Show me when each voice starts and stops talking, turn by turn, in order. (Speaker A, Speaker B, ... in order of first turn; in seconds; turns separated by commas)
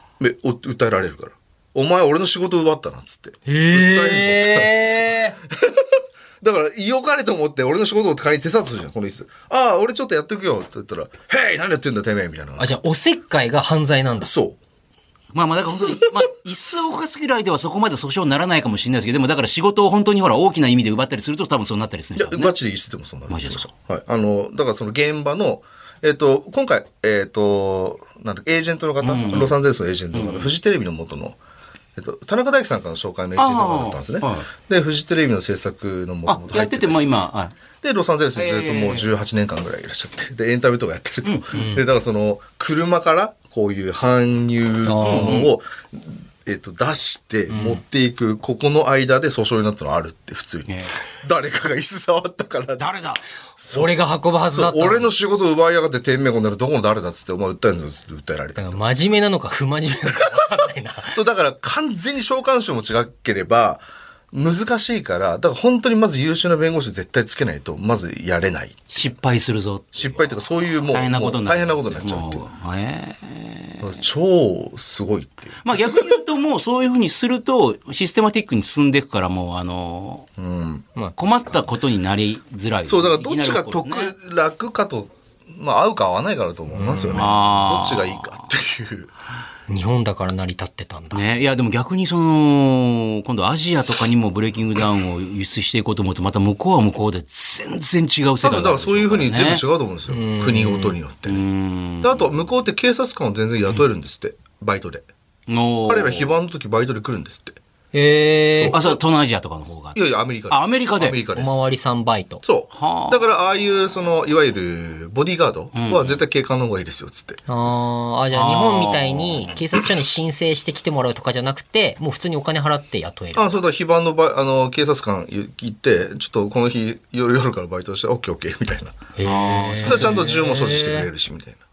Speaker A: 0.2-12.7, Speaker B: 3.5-5.4, Speaker B: 12.6-14.3, Speaker A: 14.2-14.6, Speaker C: 15.3-22.5, Speaker A: 15.8-16.2, Speaker A: 22.1-31.4, Speaker C: 23.3-23.7, Speaker C: 29.0-29.5, Speaker C: 30.1-30.5, Speaker A: 31.9-37.0, Speaker C: 33.4-34.5, Speaker C: 36.3-37.5, Speaker A: 37.8-52.9, Speaker C: 38.3-39.1, Speaker C: 41.2-41.7, Speaker B: 41.5-41.8, Speaker B: 44.8-45.5, Speaker C: 45.0-45.5, Speaker B: 47.5-47.8, Speaker C: 50.7-50.9, Speaker C: 52.8-53.2, Speaker A: 53.6-53.9, Speaker B: 53.7-55.1, Speaker A: 54.5-58.8, Speaker B: 58.6-61.1, Speaker A: 61.1-69.0, Speaker C: 68.9-70.3, Speaker A: 69.9-72.4, Speaker C: 70.9-73.9, Speaker A: 73.8-76.2, Speaker C: 75.6-80.3, Speaker A: 80.4-80.8, Speaker C: 81.2-84.1, Speaker A: 82.8-89.1, Speaker B: 86.7-87.3, Speaker C: 87.1-88.3, Speaker B: 89.7-91.2, Speaker C: 91.1-99.6, Speaker A: 98.4-101.4, Speaker B: 100.1-101.0, Speaker C: 101.2-102.3, Speaker A: 102.0-105.1, Speaker C: 105.5-106.4, Speaker A: 105.8-107.6, Speaker B: 107.9-108.8, Speaker A: 108.5-109.0, Speaker C: 108.7-110.0, Speaker A: 109.9-111.6, Speaker C: 110.5-111.2, Speaker B: 111.3-112.4, Speaker A: 112.4-117.4, Speaker C: 112.7-113.2, Speaker C: 115.7-116.2, Speaker B: 117.5-123.4, Speaker C: 118.3-119.6, Speaker A: 123.3-129.0, Speaker B: 129.2-131.1, Speaker C: 129.2-130.3, Speaker A: 129.8-131.6